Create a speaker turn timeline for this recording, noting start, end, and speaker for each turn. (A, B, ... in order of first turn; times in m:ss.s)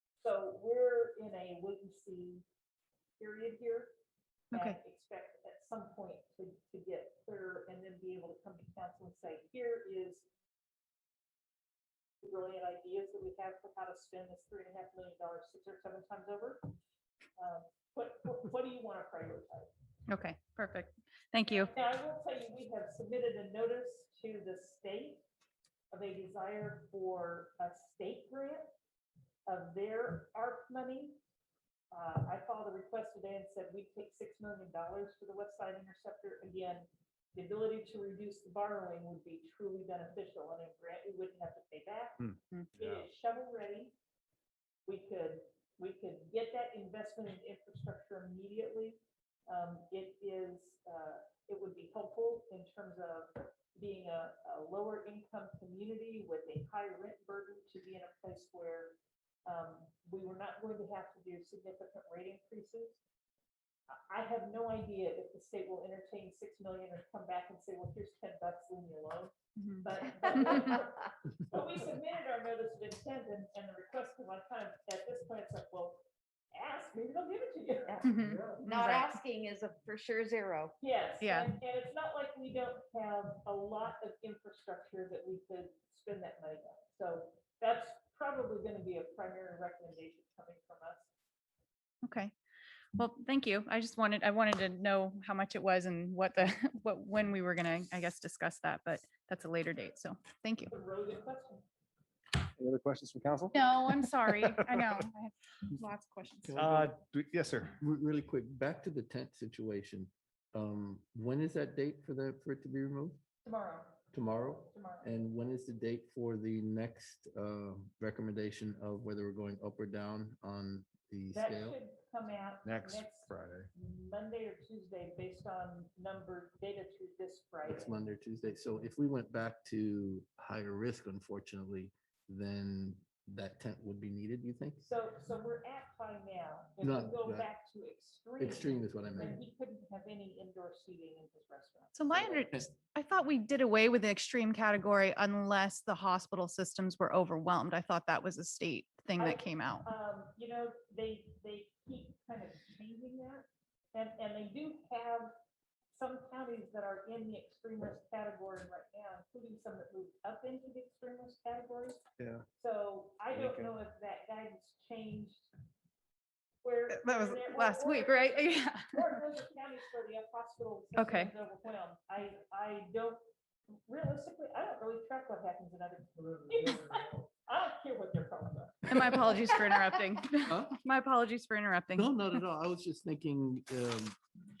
0:00.2-0:02.4 A
0:03.2-0:03.9 A
0:04.5-0:04.8 B
0:04.5-0:10.3 A
0:12.2-0:16.6 A
0:17.4-0:19.7 A
0:20.1-0:21.7 B
0:21.5-0:25.2 A
0:25.9-0:28.7 A
0:29.4-0:31.2 A
0:31.9-0:42.2 A
0:42.2-0:43.0 C
0:42.8-0:43.9 A
0:44.8-1:03.0 A
1:04.1-1:18.2 A
1:09.6-1:10.7 B
1:17.9-1:20.8 D
1:18.0-1:19.1 B
1:18.2-1:18.6 E
1:20.8-1:31.1 A
1:21.2-1:21.5 B
1:32.0-1:32.3 B
1:32.9-1:40.7 B
1:40.7-1:41.6 A
1:42.6-1:45.0 C
1:43.5-1:46.6 B
1:46.4-1:46.9 E
1:46.6-1:47.7 C
1:47.8-1:53.2 E
1:53.4-1:54.1 A
1:54.1-2:01.8 E
1:54.7-1:55.1 A
2:01.3-2:08.0 A
2:02.6-2:03.7 C
2:07.6-2:14.8 E
2:14.8-2:22.1 A
2:16.8-2:17.5 E
2:18.4-2:19.4 E
2:21.9-2:29.9 B
2:22.1-2:22.7 E
2:29.2-2:35.3 A
2:35.9-2:42.0 A
2:42.2-2:42.4 C
2:42.6-2:45.5 A
2:43.3-2:43.7 C
2:46.6-2:53.2 A
2:46.9-2:49.1 B
2:51.0-2:51.3 B
2:53.7-2:59.4 A
2:58.9-3:02.2 B
3:00.5-3:00.8 E
3:02.0-3:04.2 E